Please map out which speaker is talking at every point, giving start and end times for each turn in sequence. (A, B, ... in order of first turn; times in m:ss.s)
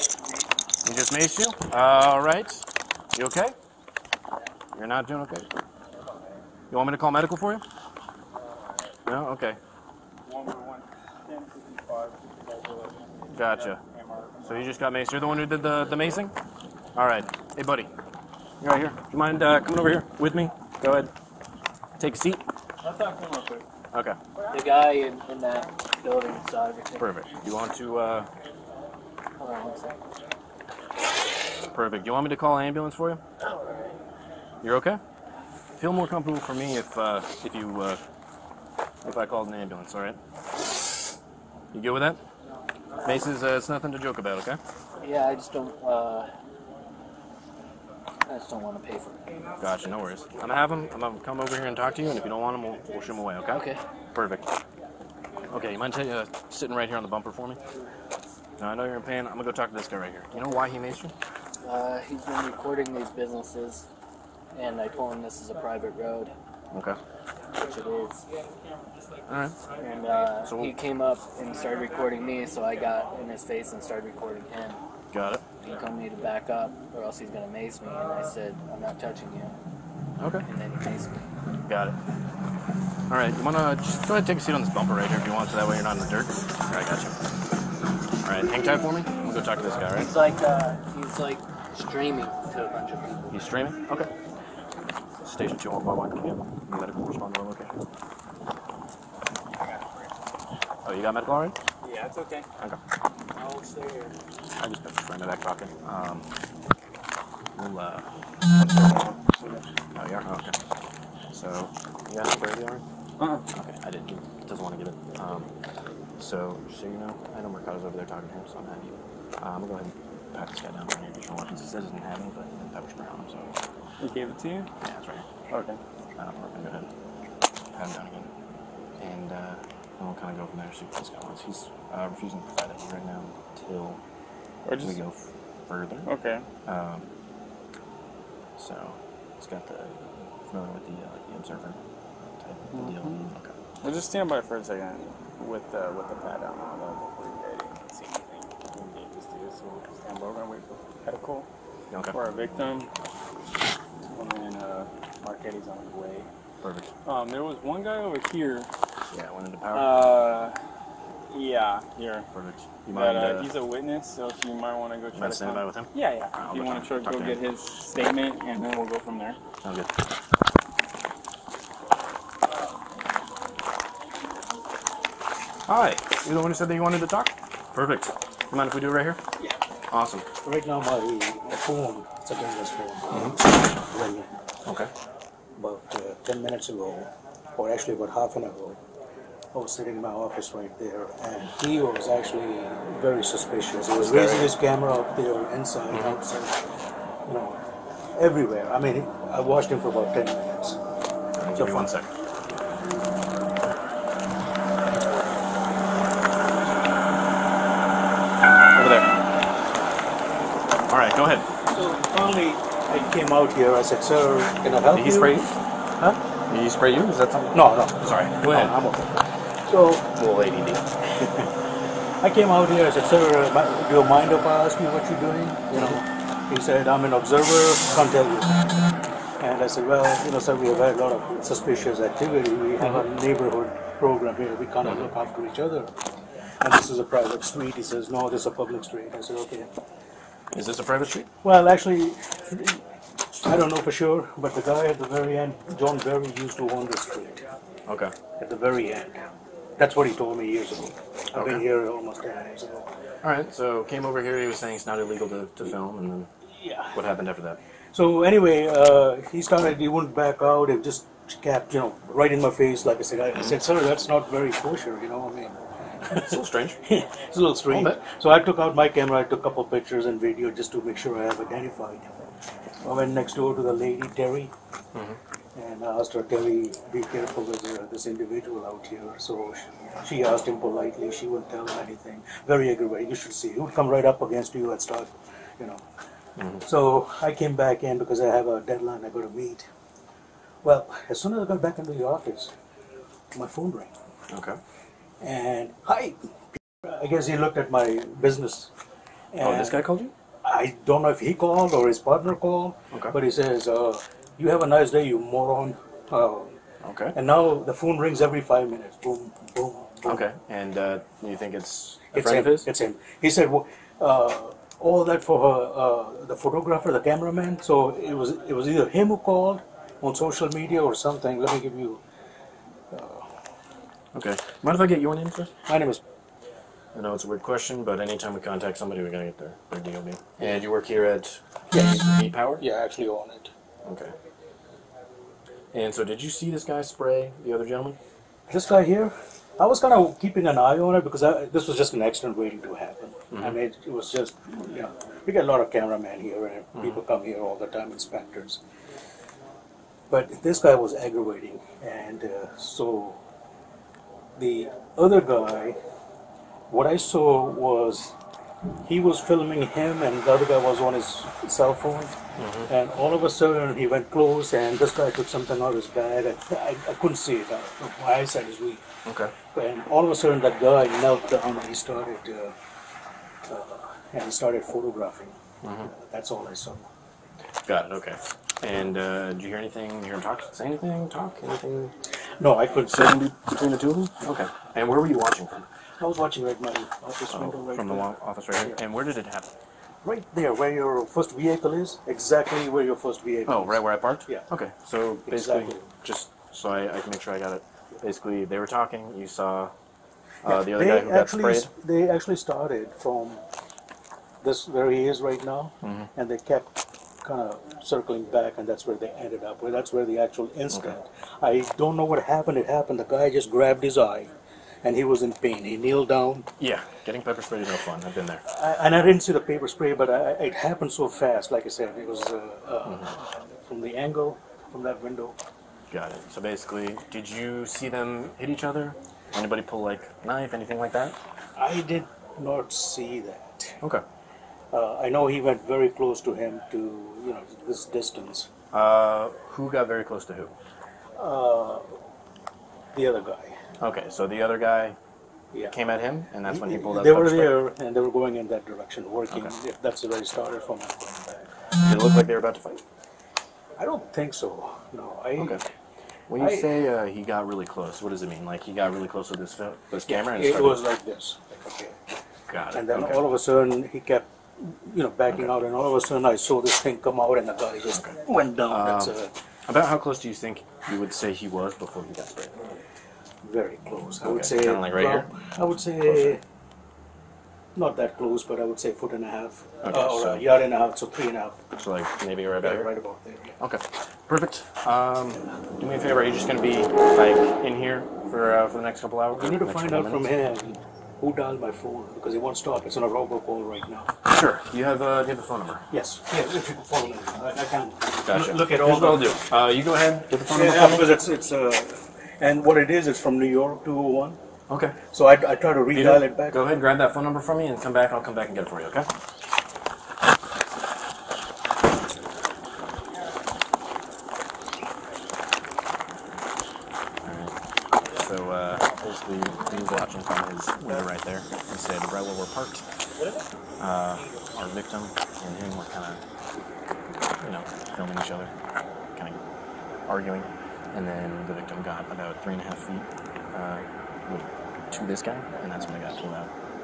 0:00.8-0:03.5 A
0:04.7-0:05.5 A
0:06.7-0:07.6 A
0:09.0-0:09.6 A
0:10.2-0:14.7 B
0:13.3-0:13.8 A
0:14.4-0:16.3 A
0:16.9-0:17.9 A
0:18.6-0:21.1 A
0:22.0-0:22.5 A
0:22.8-0:23.6 B
0:23.9-0:24.2 A
0:24.5-0:27.2 C
0:27.0-0:28.3 A
0:29.4-0:30.0 C
0:31.7-0:33.2 A
0:33.4-0:33.9 C
0:34.6-0:35.0 A
0:35.8-0:38.0 A
0:39.0-0:40.2 A
0:41.7-0:42.2 A
0:43.0-0:44.6 A
0:45.0-0:46.3 C
0:48.2-0:49.2 C
0:49.6-0:54.5 A
0:53.5-0:53.8 C
0:55.5-0:57.6 A
0:58.6-1:01.1 A
1:01.6-1:03.9 C
1:04.5-1:06.3 C
1:06.7-1:07.0 A
1:07.6-1:08.2 C
1:09.2-1:09.6 A
1:09.8-1:14.8 C
1:10.4-1:10.7 A
1:15.1-1:15.4 A
1:15.6-1:19.6 C
1:20.2-1:20.4 A
1:20.4-1:21.2 C
1:21.6-1:22.0 A
1:23.1-1:27.2 A
1:28.2-1:30.1 A
1:29.8-1:33.4 C
1:33.3-1:34.1 A
1:35.2-1:37.8 A
1:39.6-1:40.1 B
1:40.8-1:41.6 A
1:41.8-1:42.5 B
1:43.4-1:44.1 B
1:44.6-1:46.3 A
1:47.5-1:48.1 A
1:48.5-1:49.7 B
1:49.9-1:50.6 A
1:51.3-1:52.8 A
1:53.2-1:53.4 B
1:53.5-1:55.5 A
1:56.2-2:03.6 A
2:04.0-2:04.7 B
2:04.8-2:05.2 A
2:05.5-2:05.8 B
2:06.2-2:06.9 A
2:07.7-2:08.3 A
2:09.0-2:14.0 A
2:14.6-2:15.0 B
2:14.8-2:16.1 A
2:16.0-2:16.4 B
2:16.6-2:17.1 A
2:18.6-2:21.8 A
2:22.4-2:23.6 A
2:22.7-2:31.5 B
2:31.9-2:32.2 A
2:32.1-2:32.9 B
2:34.1-2:36.3 B
2:36.6-2:36.9 A
2:37.0-2:38.7 B
2:39.1-2:40.0 A
2:39.7-2:40.6 B
2:41.3-2:42.3 B
2:42.3-2:43.5 A
2:42.9-2:49.4 B
2:45.1-2:47.4 A
2:49.6-2:49.9 A
2:55.6-2:59.2 A
2:59.9-3:00.3 A
3:00.4-3:04.4 D
3:03.1-3:03.4 A
3:04.6-3:04.9 A
3:05.6-3:08.8 D
3:09.5-3:16.6 D
3:13.9-3:14.6 A
3:15.9-3:16.2 A
3:17.2-3:17.6 D
3:18.2-3:20.8 D
3:21.3-3:22.1 A
3:21.6-3:21.9 D
3:28.7-3:29.1 A
3:30.9-3:31.5 A
3:31.7-3:36.2 D
3:34.9-3:35.5 A
3:36.5-3:38.8 A
3:37.5-3:40.1 D
3:40.1-3:40.8 A
3:41.2-3:41.5 D
3:42.2-3:55.9 D
3:45.7-3:46.0 A
3:56.6-3:59.7 D
4:00.5-4:01.3 A
4:01.4-4:02.8 D
4:03.3-4:07.4 D
4:07.9-4:08.1 A
4:08.4-4:12.9 D
4:11.3-4:11.6 A
4:13.2-4:16.3 A
4:16.5-4:16.9 D
4:16.9-4:17.6 A
4:17.9-4:25.6 D
4:26.0-4:26.8 A
4:26.1-4:32.1 D
4:27.7-4:28.0 A
4:32.8-4:34.5 D
4:35.6-4:45.8 D
4:46.4-4:46.6 A
4:46.6-4:49.6 D
4:50.6-4:52.5 D
4:53.3-4:53.9 D
4:54.3-4:54.6 A
4:55.2-4:58.7 D
4:59.3-4:59.8 D
4:59.4-5:00.1 A
5:00.4-5:06.5 D
5:02.9-5:03.2 A
5:06.8-5:07.2 A
5:07.1-5:10.2 D
5:10.0-5:12.7 A
5:12.1-5:22.0 D
5:22.9-5:23.4 D
5:24.1-5:25.5 A
5:25.6-5:26.0 D
5:26.9-5:32.6 A
5:31.7-5:33.5 D
5:33.8-5:34.1 A
5:35.7-5:38.0 A
5:38.5-5:48.6 D
5:50.1-5:53.2 D
5:54.4-5:55.8 D
5:56.7-5:58.2 D
5:58.8-6:08.8 D
6:02.4-6:02.7 A
6:09.0-6:09.3 A
6:09.5-6:12.5 D
6:13.5-6:16.9 D
6:15.6-6:15.9 A
6:17.6-6:22.0 A
6:22.4-6:23.3 D
6:22.8-6:25.7 A
6:26.0-6:28.8 D
6:27.3-6:29.5 A
6:30.0-6:34.4 D
6:33.5-6:39.7 A
6:35.2-6:35.9 D
6:40.4-6:41.7 A
6:40.4-6:43.4 D
6:44.4-6:54.3 D
6:45.8-6:46.1 A
6:50.7-6:50.9 A
6:54.8-6:56.5 D
6:56.6-6:58.4 A
6:58.4-7:05.4 D
7:02.8-7:03.1 A
7:05.9-7:11.2 A
7:11.6-7:13.8 D
7:14.7-7:18.5 D
7:18.7-7:20.5 A
7:21.2-7:21.8 D
7:22.9-7:23.6 D
7:23.8-7:25.0 A
7:25.6-7:27.6 A
7:26.4-7:31.5 D
7:31.8-7:32.8 A
7:33.8-7:35.6 D
7:35.4-7:35.6 A
7:36.3-7:40.8 A
7:36.4-7:36.7 D
7:40.0-7:42.0 D
7:42.5-7:43.2 A
7:42.7-7:49.3 D
7:45.3-7:45.6 A
7:47.9-7:49.1 A
7:49.6-7:52.7 A
7:53.4-7:56.4 D
7:54.2-7:55.3 A
7:56.0-7:56.4 A
7:57.8-8:01.6 D
7:59.8-8:00.5 A
8:01.7-8:02.9 A
8:02.6-8:03.6 D
8:03.6-8:10.3 A
8:09.3-8:14.1 D
8:14.2-8:15.9 A
8:15.9-8:19.5 D
8:18.2-8:21.1 A
8:20.4-8:24.4 D
8:24.7-8:25.0 A
8:25.1-8:26.6 D
8:25.9-8:29.1 A
8:37.2-8:37.6 A
8:38.1-8:42.9 A
8:43.8-8:46.2 A
8:47.4-8:48.5 A
8:49.1-8:49.4 A
8:50.0-8:56.5 A